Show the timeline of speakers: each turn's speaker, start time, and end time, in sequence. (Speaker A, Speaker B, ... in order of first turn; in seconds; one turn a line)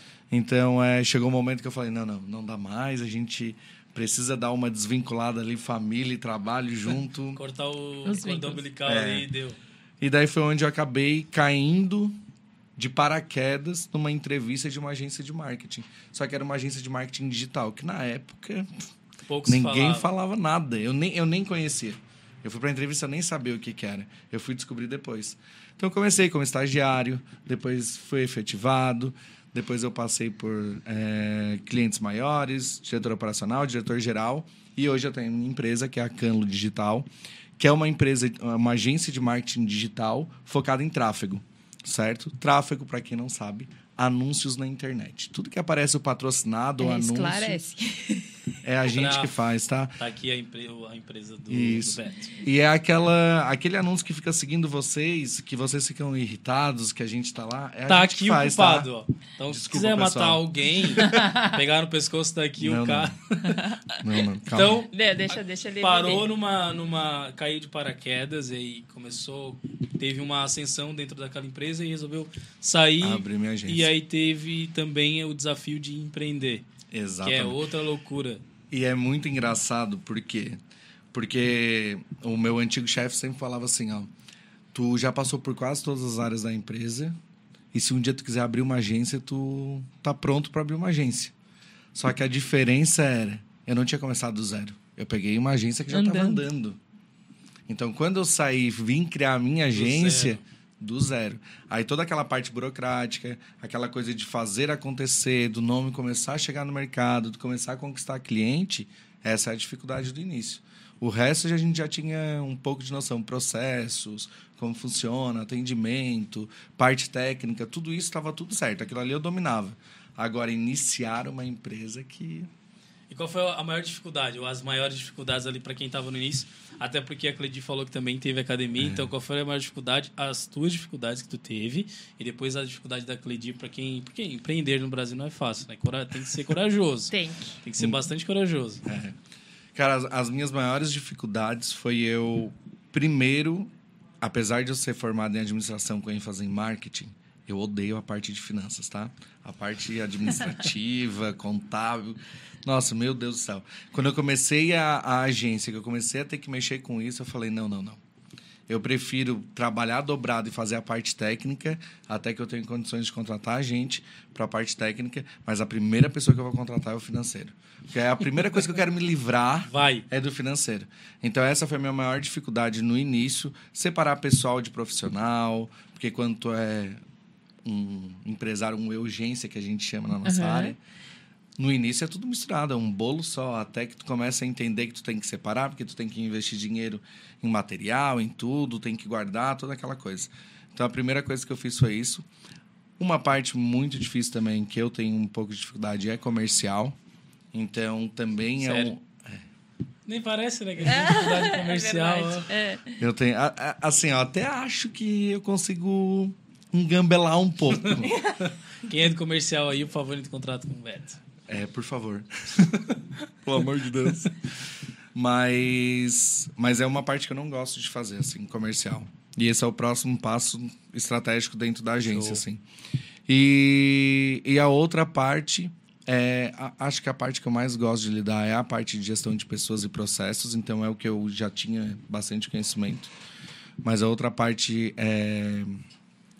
Speaker A: 0.3-7.4
Speaker B: 7.4-9.6
Speaker C: 8.1-8.6
Speaker A: 8.9-9.3
Speaker A: 10.0-12.2
Speaker A: 12.8-18.8
Speaker B: 19.3-20.1
Speaker A: 19.5-37.1
Speaker A: 37.6-47.6
Speaker C: 46.8-48.3
Speaker A: 48.6-50.0
Speaker B: 48.9-49.3
Speaker B: 50.0-52.4
Speaker A: 51.5-58.9
Speaker B: 57.9-63.7
Speaker A: 59.5-60.4
Speaker C: 61.0-61.5
Speaker A: 62.6-63.1
Speaker C: 63.5-64.0
Speaker A: 64.0-64.8
Speaker B: 64.5-76.7
Speaker C: 64.9-66.2
Speaker A: 73.0-73.9
Speaker A: 76.9-77.6
Speaker B: 77.2-78.4
Speaker A: 78.7-80.6
Speaker A: 81.1-84.1
Speaker A: 84.7-87.1
Speaker A: 87.7-91.3
Speaker A: 91.9-96.8
Speaker C: 95.9-96.4
Speaker A: 97.7-122.5
Speaker B: 99.8-100.4
Speaker B: 123.1-138.8
Speaker A: 128.8-129.1
Speaker C: 137.1-137.6
Speaker A: 138.8-139.2
Speaker A: 139.8-143.7
Speaker A: 144.2-158.0
Speaker A: 158.7-177.0
Speaker B: 169.7-170.1
Speaker A: 177.7-180.8
Speaker C: 180.2-180.7
Speaker A: 181.6-192.3
Speaker A: 193.0-197.0
Speaker A: 197.5-199.4
Speaker B: 198.6-198.9
Speaker B: 200.1-202.5
Speaker C: 200.9-203.0
Speaker A: 203.0-208.1
Speaker B: 207.9-211.2
Speaker C: 208.1-208.4
Speaker A: 211.5-212.7
Speaker A: 213.4-214.5
Speaker A: 215.1-222.6
Speaker B: 222.0-222.4
Speaker A: 223.3-233.1
Speaker A: 233.8-235.8